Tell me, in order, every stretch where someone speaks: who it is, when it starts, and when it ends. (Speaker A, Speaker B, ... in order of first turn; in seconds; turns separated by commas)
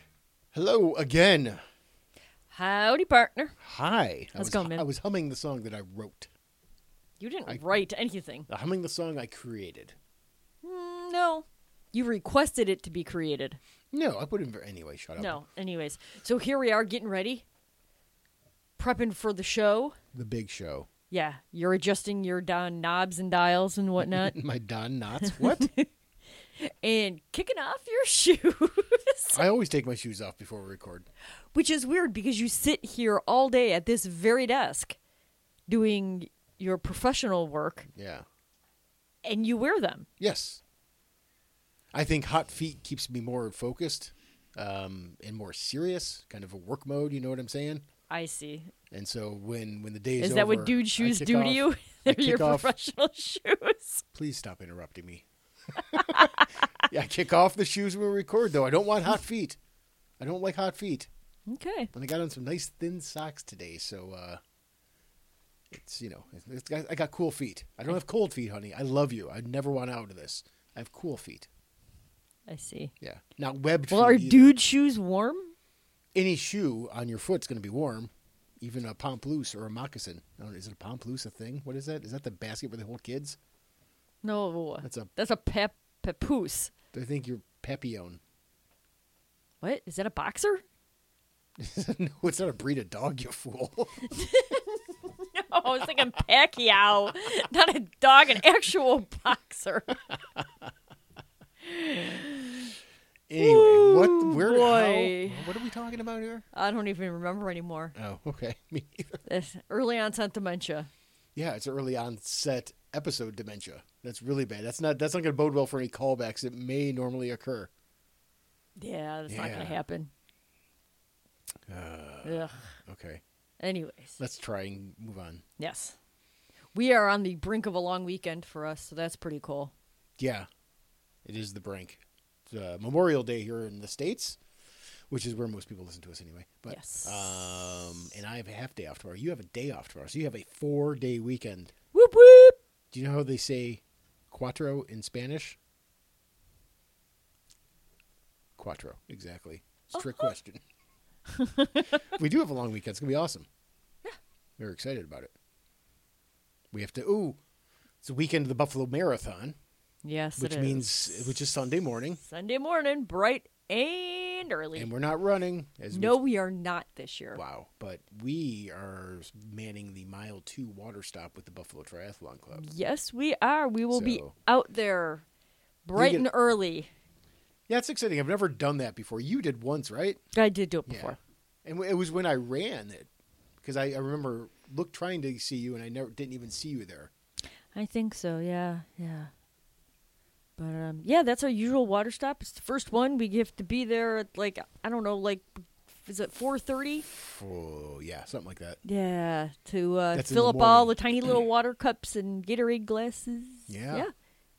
Speaker A: 0.5-1.6, Speaker B: 2.5-3.5, Speaker A: 3.6-6.3, Speaker B: 4.4-4.8, Speaker B: 7.2-8.5, Speaker A: 8.5-9.9, Speaker B: 10.6-13.6, Speaker A: 13.9-15.4, Speaker B: 15.2-17.4, Speaker B: 18.8-20.0, Speaker A: 20.1-20.9, Speaker B: 21.1-24.3, Speaker A: 24.0-25.7, Speaker B: 25.2-25.9, Speaker B: 26.6-29.4, Speaker A: 29.3-31.1, Speaker B: 31.5-35.0, Speaker B: 35.7-37.9, Speaker A: 37.9-38.2, Speaker B: 39.2-40.0, Speaker A: 40.2-40.6, Speaker A: 41.9-47.8, Speaker B: 48.1-48.7, Speaker A: 48.9-52.7, Speaker B: 50.2-54.0, Speaker A: 54.1-59.6, Speaker B: 55.8-56.9, Speaker A: 60.2-61.1, Speaker B: 61.5-61.9, Speaker A: 61.9-64.4, Speaker A: 65.7-71.5, Speaker B: 72.5-72.9, Speaker A: 73.0-74.5, Speaker B: 73.9-75.5, Speaker A: 76.1-83.4, Speaker B: 84.2-86.7, Speaker A: 84.8-85.1, Speaker A: 86.9-88.2, Speaker B: 89.6-90.6, Speaker A: 91.6-94.1, Speaker B: 94.1-100.0, Speaker B: 101.6-102.7, Speaker A: 103.3-106.5, Speaker B: 103.4-105.5, Speaker B: 106.5-107.9, Speaker A: 107.9-109.2, Speaker B: 109.2-110.9, Speaker A: 111.3-117.7, Speaker B: 118.8-120.1, Speaker A: 119.3-119.8, Speaker A: 121.7-123.2, Speaker B: 122.2-122.7, Speaker B: 123.6-124.2, Speaker A: 124.2-125.4, Speaker B: 125.6-126.0, Speaker B: 126.7-129.7, Speaker A: 130.2-130.5, Speaker A: 131.2-134.4, Speaker A: 135.1-141.7, Speaker B: 136.7-138.0, Speaker B: 141.9-142.6, Speaker A: 142.9-145.6, Speaker A: 148.6-150.6, Speaker B: 149.9-150.3, Speaker B: 151.3-152.1, Speaker A: 152.1-153.5, Speaker A: 154.6-155.3, Speaker A: 156.7-157.4, Speaker A: 158.0-159.6, Speaker B: 160.0-161.4, Speaker A: 160.4-162.2, Speaker B: 162.2-164.9, Speaker A: 164.8-166.2, Speaker B: 165.9-167.4, Speaker A: 167.3-172.6, Speaker B: 172.5-175.2, Speaker A: 173.9-174.3, Speaker B: 175.8-176.9, Speaker A: 175.9-176.3, Speaker A: 177.7-180.2, Speaker B: 180.3-181.2, Speaker A: 180.9-183.1, Speaker A: 183.6-187.1, Speaker B: 187.7-189.3, Speaker B: 190.6-197.1, Speaker A: 197.1-198.8, Speaker B: 198.8-204.1, Speaker A: 200.1-201.0, Speaker A: 203.7-204.1